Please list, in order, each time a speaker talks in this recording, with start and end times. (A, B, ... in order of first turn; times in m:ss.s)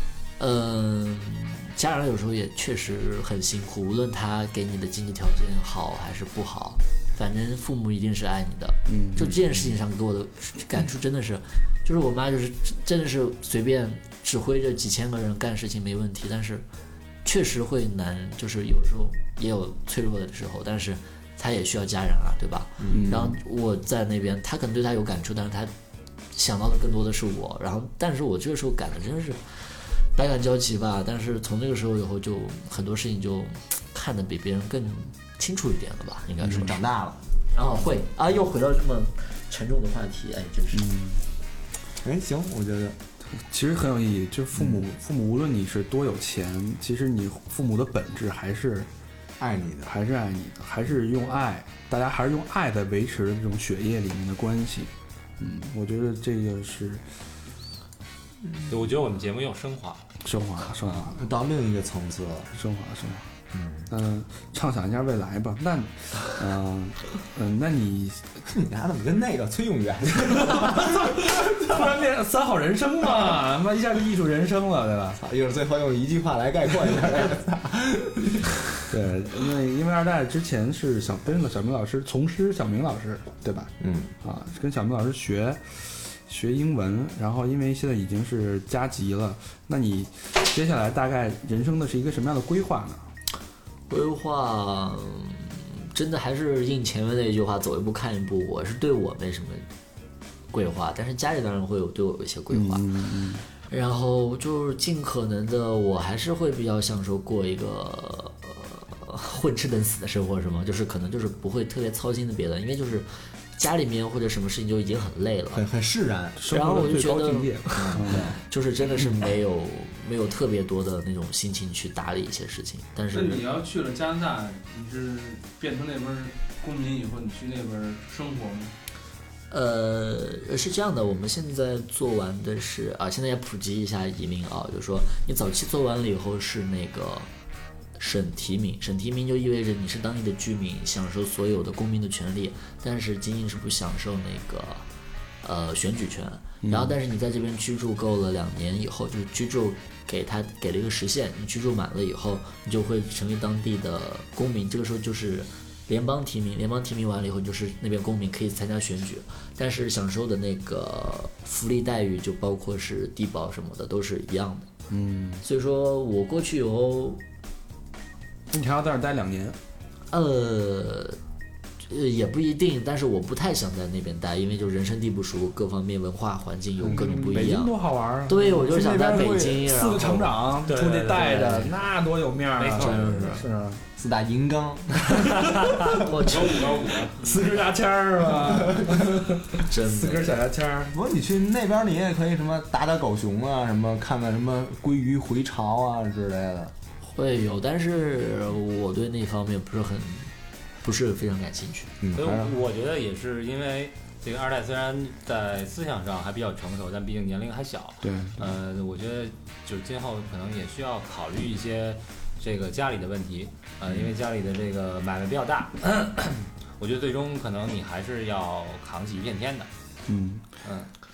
0:00.4-0:16.6 A
0:08.9-0:09.3 B
0:17.2-0:25.7 A
0:22.8-0:23.4 C
0:22.9-0:23.4 B
0:26.3-0:36.8 A
0:36.5-0:37.2 C
0:37.5-0:40.9 A
0:40.7-0:41.2 B
0:42.0-0:43.0 C
0:43.4-0:48.9 B
0:44.5-0:44.8 C
0:49.4-0:49.9 C
0:49.9-0:57.0 B
0:58.7-1:00.1 D
1:00.2-1:01.2 B
1:01.1-1:02.5 C
1:02.6-1:03.3 B
1:03.5-1:03.9 C
1:03.9-1:08.4 B
1:08.5-1:11.1 C
1:10.4-1:15.2 B
1:15.2-1:18.6 C
1:18.9-1:23.7 B
1:23.8-1:24.1 C
1:24.2-1:33.0 B
1:33.9-1:39.7 A
1:40.5-1:42.9 A
1:42.5-1:43.4 B
1:43.7-1:55.6 A
1:55.5-1:56.4 C
1:56.4-1:58.4 B
1:56.5-2:03.4 A
1:57.7-1:58.4 C
2:03.1-2:08.7 E
2:09.5-2:17.3 A
2:18.0-2:24.9 A
2:25.4-2:44.7 A
2:26.6-2:26.9 B
2:44.9-2:45.4 B
2:45.4-2:47.2 A
2:48.5-2:49.6 B
2:50.1-2:51.2 A
2:51.8-3:00.4 A
2:56.8-2:57.3 C
2:56.8-3:03.8 B
2:58.4-2:59.7 C
3:00.6-3:01.4 D
3:01.2-3:01.7 A
3:02.6-3:03.4 D
3:02.8-3:03.5 A
3:04.0-3:05.9 C
3:05.4-3:05.7 D
3:06.0-3:06.8 A
3:06.2-3:07.1 E
3:07.1-3:10.9 B
3:08.4-3:09.2 C
3:09.7-3:10.4 A
3:10.9-3:16.7 C
3:17.0-3:21.9 A
3:22.0-3:22.5 C
3:22.1-3:39.7 D
3:28.0-3:28.5 B
3:40.1-3:40.4 B